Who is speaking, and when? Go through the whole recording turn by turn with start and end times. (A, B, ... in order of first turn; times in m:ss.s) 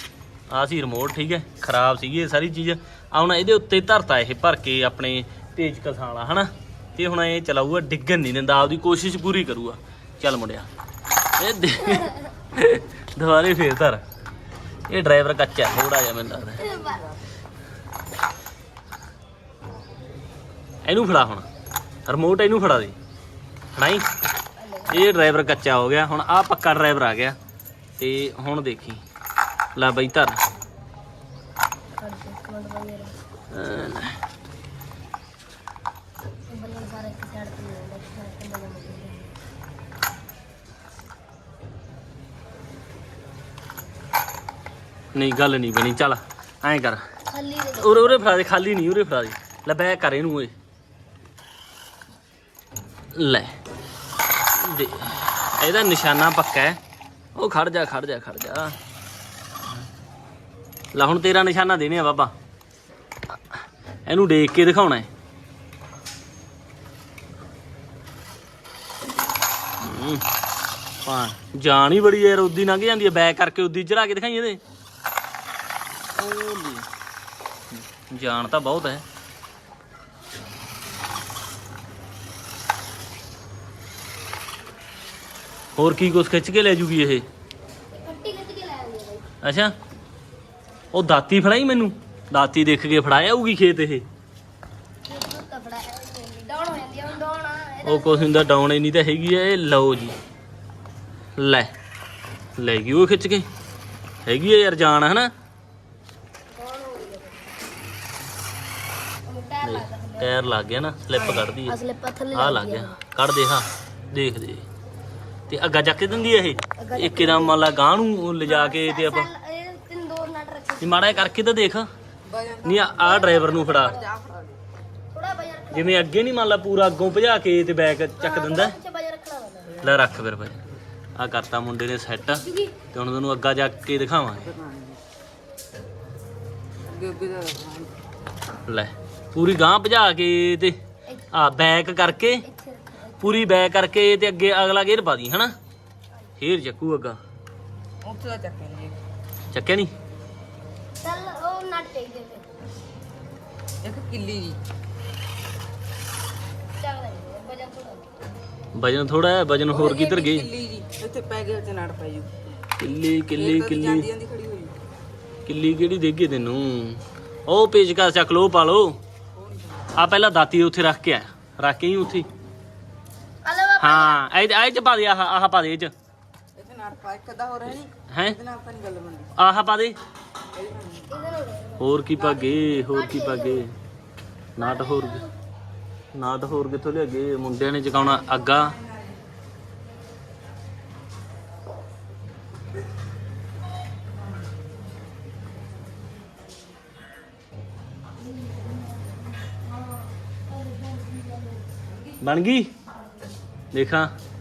0:00.5-0:10.7 A
0:11.4-0:14.0 A
0:14.9-0:16.7 A
0:16.6-0:17.0 B
0:16.6-0:17.2 C
0:20.8-0:21.4 A
0:22.1-0:23.0 A
0:23.8-0:24.1 A
0:24.6-0:25.1 B
0:24.9-0:27.4 A
0:28.0-0:29.0 A
0:29.7-0:30.4 A
0:32.0-0:33.2 B
0:33.5-0:34.2 A
0:36.5-0:39.3 B
0:45.1-0:47.0 A
0:47.3-0:48.3 B
0:47.8-0:50.5 A
0:53.1-0:53.5 A
0:54.5-0:56.8 A
0:57.3-0:58.8 A
1:00.9-1:02.3 A
1:04.0-1:05.1 A
1:09.8-1:10.2 A
1:11.0-1:14.6 A
1:16.2-1:16.9 A
1:18.0-1:19.0 A
1:25.8-1:27.2 A
1:27.9-1:29.3 B
1:29.4-1:29.7 A
1:30.9-1:34.0 A
1:35.1-1:38.4 B
1:37.8-1:40.2 A
1:41.4-1:41.7 A
1:42.6-1:43.5 A
1:44.2-1:45.3 A
1:46.5-1:47.5 B
1:49.2-1:50.4 B
1:49.6-1:51.8 A
1:51.2-1:53.0 B
1:52.3-1:54.6 A
1:55.5-1:59.3 A
1:56.8-1:57.6 B
1:58.4-2:01.2 B
2:00.8-2:01.9 A
2:02.2-2:04.6 C
2:02.6-2:04.0 A
2:02.9-2:04.1 B
2:05.1-2:06.1 B
2:05.7-2:08.8 A
2:08.2-2:09.8 B
2:09.8-2:10.6 A
2:11.2-2:14.5 A
2:12.3-2:12.7 B
2:14.4-2:15.0 C
2:16.8-2:17.9 C
2:18.6-2:20.8 A
2:21.3-2:22.4 A
2:22.2-2:23.6 B
2:23.2-2:25.5 A
2:26.4-2:27.2 A
2:28.0-2:29.0 C
2:29.5-2:29.9 A
2:31.0-2:32.4 B
2:33.8-2:34.6 C
2:36.8-2:38.1 B
2:38.7-2:40.5 A
2:39.7-2:42.3 C
2:42.8-2:44.1 A
2:43.4-2:44.7 C
2:45.4-2:49.0 A
2:49.3-2:50.0 C
2:49.9-2:52.3 A
2:53.4-2:54.2 B
2:53.8-2:55.9 A
2:56.6-2:59.3 C
2:58.1-2:58.4 A
2:59.3-3:00.0 A
3:00.5-3:01.1 C
3:01.1-3:01.9 B
3:01.8-3:03.7 A
3:02.2-3:02.6 C
3:02.5-3:03.6 B
3:04.6-3:05.2 A
3:04.6-3:05.3 B
3:06.1-3:08.8 A
3:22.2-3:22.7 A
3:23.7-3:24.1 A